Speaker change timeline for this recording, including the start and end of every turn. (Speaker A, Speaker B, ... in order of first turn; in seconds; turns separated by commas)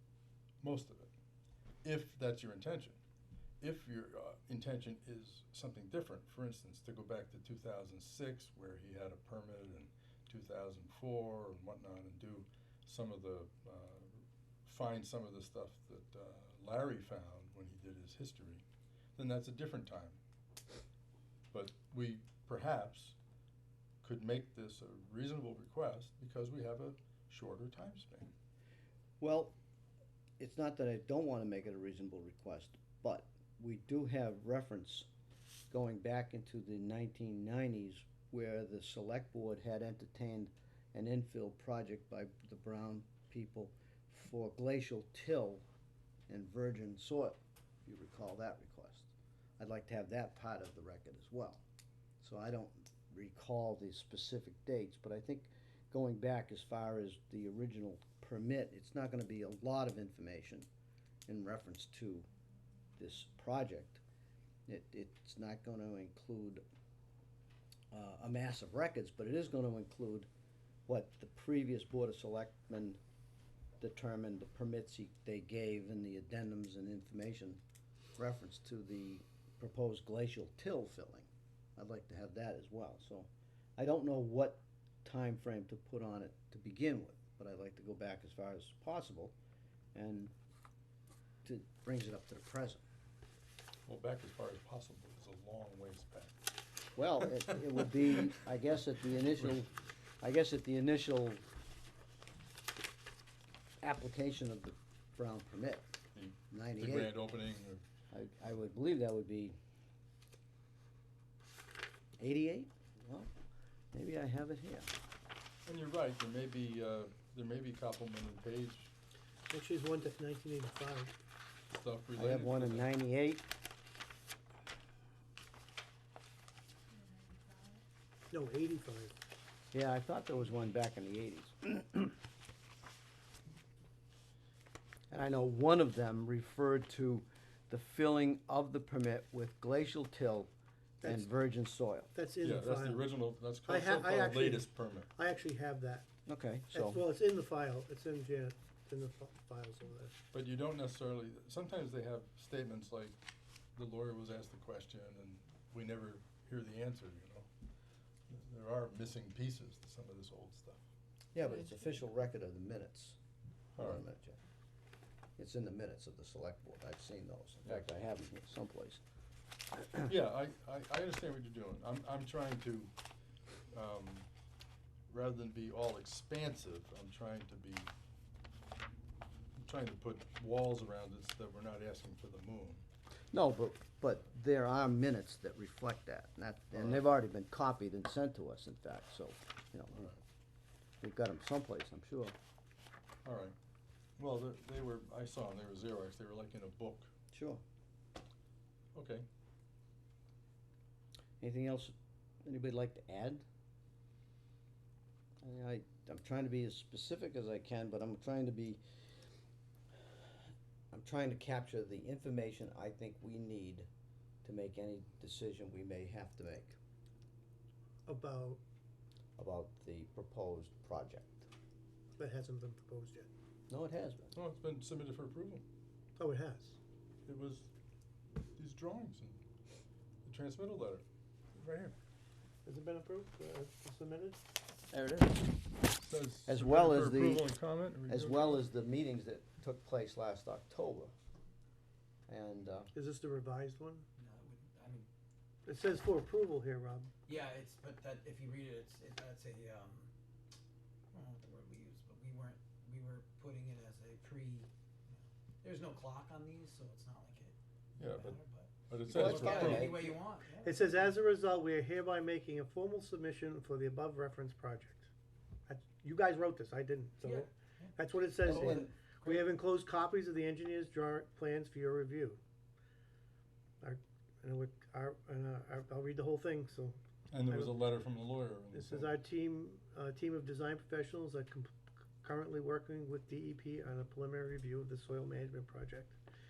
Speaker A: 0.6-1.1, Speaker A: 1.8-3.0, Speaker A: 3.6-18.6, Speaker A: 19.2-20.2, Speaker A: 21.5-23.2, Speaker A: 24.0-28.3, Speaker B: 29.2-29.6, Speaker B: 30.4-35.1, Speaker B: 35.7-45.6, Speaker B: 46.3-51.6, Speaker B: 52.2-60.7, Speaker B: 61.3-62.3, Speaker B: 63.0-64.0, Speaker B: 64.7-66.6, Speaker B: 67.9-70.3, Speaker B: 70.9-73.0, Speaker B: 73.8-77.6, Speaker B: 78.2-89.3, Speaker B: 89.9-90.3, Speaker B: 91.4-92.8, Speaker A: 93.9-96.4, Speaker B: 97.0-99.7, Speaker A: 97.2-97.6, Speaker B: 100.2-101.4, Speaker B: 103.8-106.0, Speaker A: 106.2-107.8, Speaker B: 106.5-107.2, Speaker B: 108.1-109.6, Speaker B: 112.2-113.3, Speaker B: 113.9-114.9, Speaker A: 115.7-118.9, Speaker C: 119.5-121.1, Speaker A: 121.7-122.9, Speaker B: 122.2-123.5, Speaker C: 128.3-129.2, Speaker B: 129.7-132.2, Speaker B: 135.1-140.5, Speaker C: 141.0-141.3, Speaker B: 141.0-142.1, Speaker C: 142.1-143.1, Speaker A: 142.4-145.1, Speaker C: 143.6-146.1, Speaker B: 146.3-147.0, Speaker C: 146.7-150.2, Speaker A: 150.3-153.2, Speaker A: 153.8-157.5, Speaker A: 158.3-160.8, Speaker B: 161.3-163.2, Speaker A: 163.8-164.0, Speaker B: 163.8-164.4, Speaker B: 165.4-169.0, Speaker A: 170.1-172.9, Speaker A: 173.7-174.3, Speaker A: 175.1-177.9, Speaker A: 179.6-182.8, Speaker B: 183.3-190.1, Speaker A: 186.8-187.0, Speaker A: 189.9-190.2, Speaker B: 191.0-192.3, Speaker A: 193.2-193.6, Speaker A: 194.2-197.1, Speaker B: 197.3-197.6, Speaker A: 198.9-199.3, Speaker B: 201.4-203.4, Speaker B: 205.4-208.8, Speaker B: 210.9-213.9, Speaker B: 214.4-216.8, Speaker C: 218.1-218.6, Speaker B: 219.4-221.5, Speaker C: 222.2-223.3, Speaker B: 223.7-224.3, Speaker A: 224.3-225.6, Speaker C: 226.2-226.8, Speaker A: 227.3-227.7, Speaker A: 228.6-229.4, Speaker A: 230.2-231.9, Speaker C: 232.7-234.4, Speaker B: 234.9-235.5, Speaker A: 236.0-238.7, Speaker B: 236.5-237.5, Speaker B: 238.1-241.1, Speaker B: 242.3-242.9, Speaker C: 242.9-244.1, Speaker D: 244.2-245.1, Speaker C: 245.7-247.1, Speaker D: 247.3-250.1, Speaker D: 251.1-261.3, Speaker A: 258.0-260.0, Speaker B: 259.1-260.2, Speaker C: 260.6-265.1, Speaker C: 265.7-272.4, Speaker D: 267.2-269.5, Speaker B: 268.4-268.9, Speaker C: 273.8-277.8, Speaker A: 277.3-279.2, Speaker C: 278.7-286.2